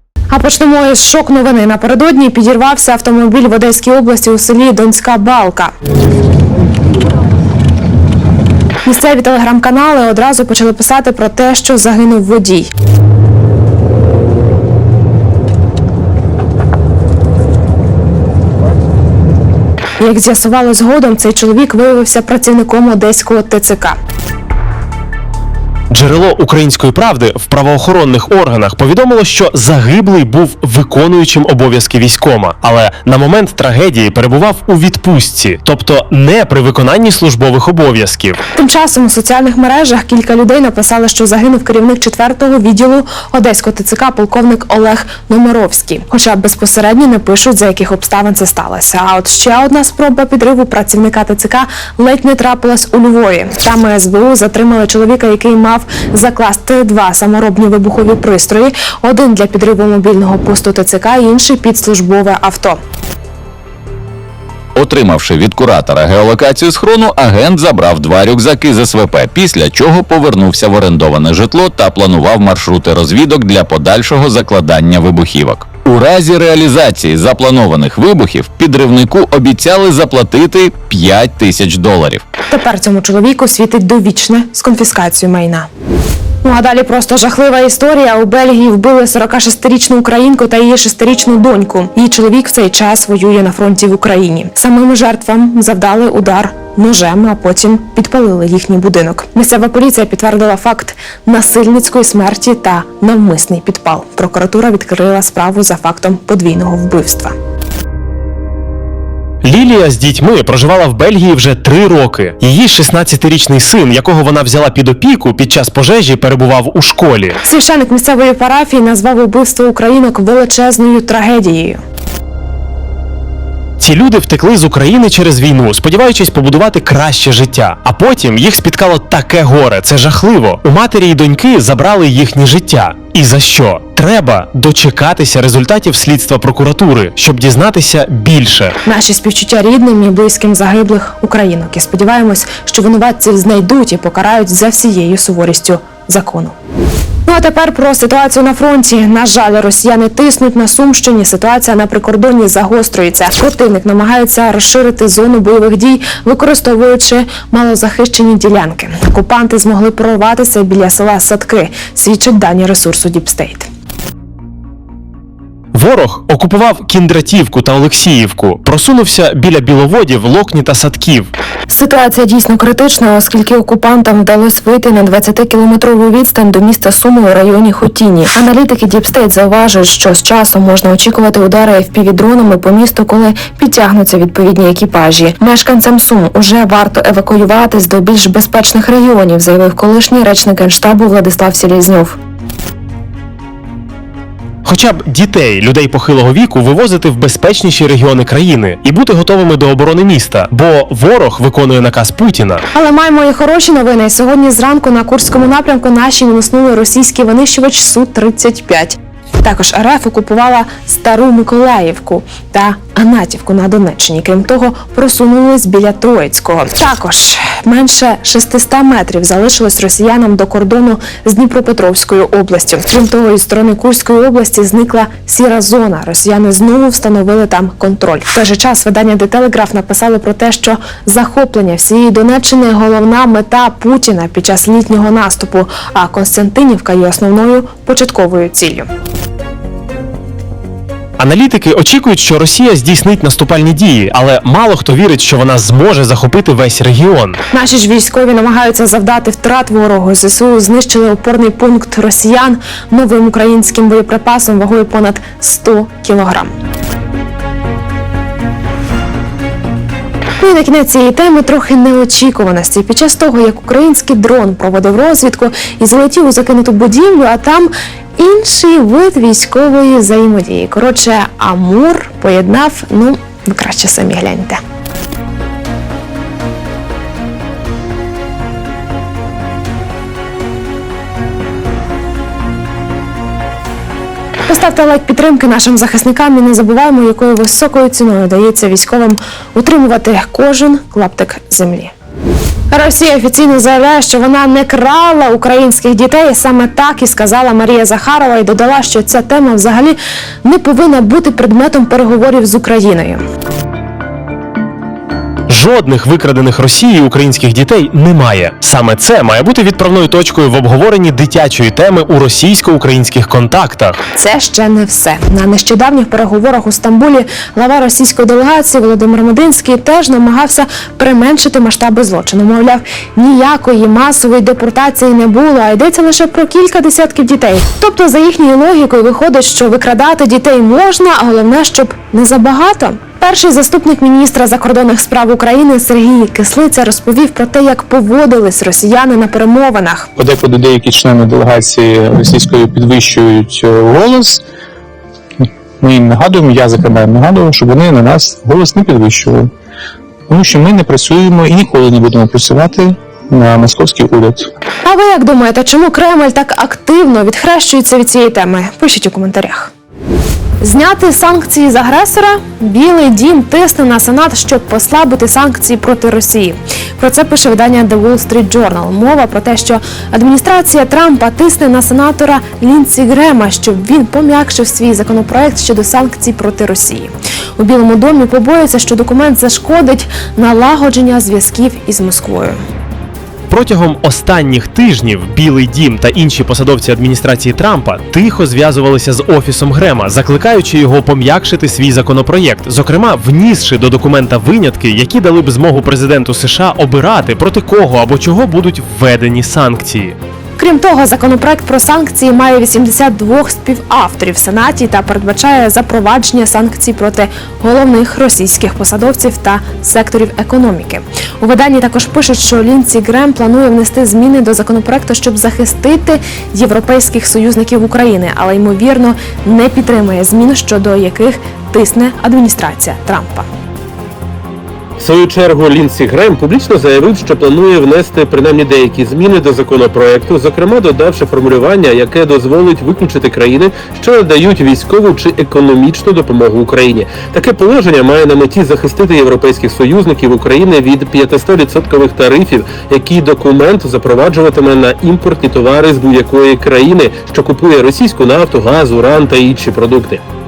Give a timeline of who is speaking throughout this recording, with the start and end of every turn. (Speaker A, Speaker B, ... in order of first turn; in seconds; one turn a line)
Speaker A: 0.3-5.7
Speaker A: 8.8-12.7
Speaker A: 20.0-24.0
Speaker B: 25.9-38.4
Speaker A: 38.5-62.8
Speaker C: 64.7-82.2
Speaker A: 82.5-85.7
Speaker A: 86.4-107.3
Speaker B: 109.4-117.4
Speaker A: 117.4-121.8
Speaker B: 123.8-138.8
Speaker A: 138.8-146.6
Speaker A: 147.2-163.7
Speaker B: 165.7-171.3
Speaker A: 171.7-192.2
Speaker B: 194.6-202.6
Speaker A: 202.7-238.9
Speaker B: 241.2-247.4
Speaker A: 247.5-256.5
Speaker A: 260.4-274.6
Speaker A: 284.5-291.9
Speaker A: 292.7-303.2
Speaker B: 305.5-314.0
Speaker A: 314.1-340.1
Speaker D: 340.2-344.4
Speaker D: 345.8-349.5
Speaker D: 350.3-354.5
Speaker A: 354.8-359.7
Speaker A: 360.6-382.6
Speaker B: 383.5-400.1
Speaker A: 400.6-423.5
Speaker E: 425.0-450.2